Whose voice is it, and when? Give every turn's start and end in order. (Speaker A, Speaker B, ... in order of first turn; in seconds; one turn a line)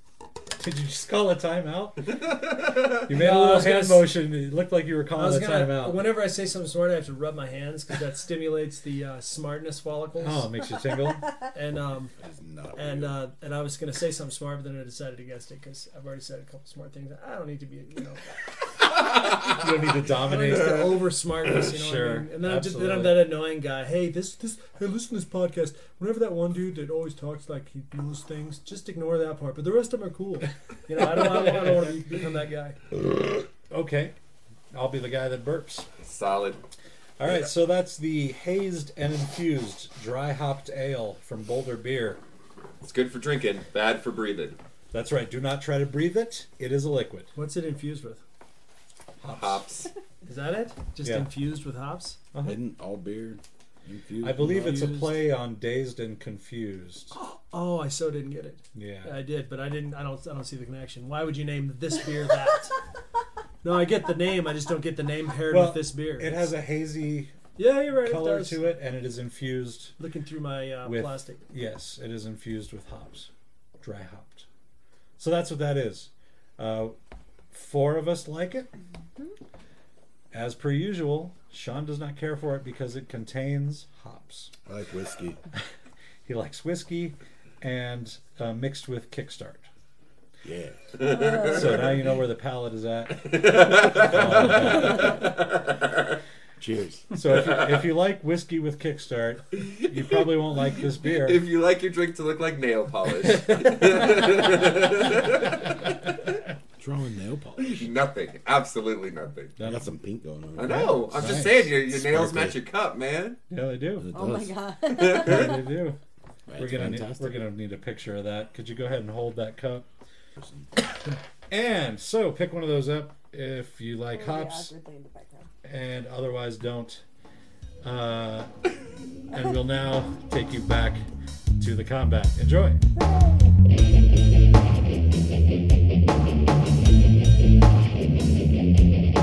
Speaker A: 0.6-6.1
Speaker B: 3.1-4.2
Speaker B: 5.1-10.5
Speaker A: 10.2-11.5
Speaker B: 11.5-12.1
Speaker C: 12.2-13.2
Speaker B: 12.8-18.3
Speaker A: 19.4-21.0
Speaker B: 19.6-32.8
Speaker A: 21.6-23.4
Speaker A: 31.0-31.9
Speaker A: 33.7-34.1
Speaker A: 34.7-35.9
Speaker D: 36.0-36.6
Speaker A: 37.2-42.2
Speaker D: 42.8-44.6
Speaker A: 44.9-47.3
Speaker B: 47.3-48.2
Speaker A: 49.2-49.7
Speaker D: 49.3-49.9
Speaker B: 50.2-52.2
Speaker A: 51.0-51.3
Speaker A: 52.3-52.6
Speaker C: 52.4-54.8
Speaker A: 54.2-57.1
Speaker B: 54.4-55.2
Speaker B: 57.1-62.7
Speaker A: 58.7-59.2
Speaker B: 63.6-66.5
Speaker A: 65.5-67.4
Speaker B: 67.5-68.8
Speaker A: 67.9-69.9
Speaker B: 70.0-71.4
Speaker A: 70.8-73.3
Speaker A: 73.8-74.5
Speaker A: 75.2-77.0
Speaker A: 77.5-78.7
Speaker A: 80.3-84.5
Speaker C: 84.7-85.4
Speaker A: 86.2-89.7
Speaker C: 90.4-91.0
Speaker D: 91.0-91.9
Speaker A: 91.4-95.2
Speaker D: 93.2-96.2
Speaker C: 96.6-97.1
Speaker A: 97.1-101.4
Speaker D: 99.6-100.2
Speaker D: 101.0-106.0
Speaker C: 106.8-107.9
Speaker D: 107.6-109.5
Speaker A: 109.6-109.9
Speaker C: 109.6-112.6
Speaker D: 110.5-113.4
Speaker A: 110.6-111.7
Speaker A: 113.5-114.1
Speaker C: 114.0-114.5
Speaker E: 114.1-115.6
Speaker D: 114.9-115.5
Speaker A: 115.1-116.0
Speaker C: 116.5-117.4
Speaker A: 116.5-119.8
Speaker C: 120.4-120.7
Speaker A: 121.5-124.7
Speaker E: 124.1-125.5
Speaker A: 125.6-127.0
Speaker A: 127.8-128.5
Speaker A: 129.3-131.0
Speaker A: 131.6-132.8
Speaker E: 132.9-133.5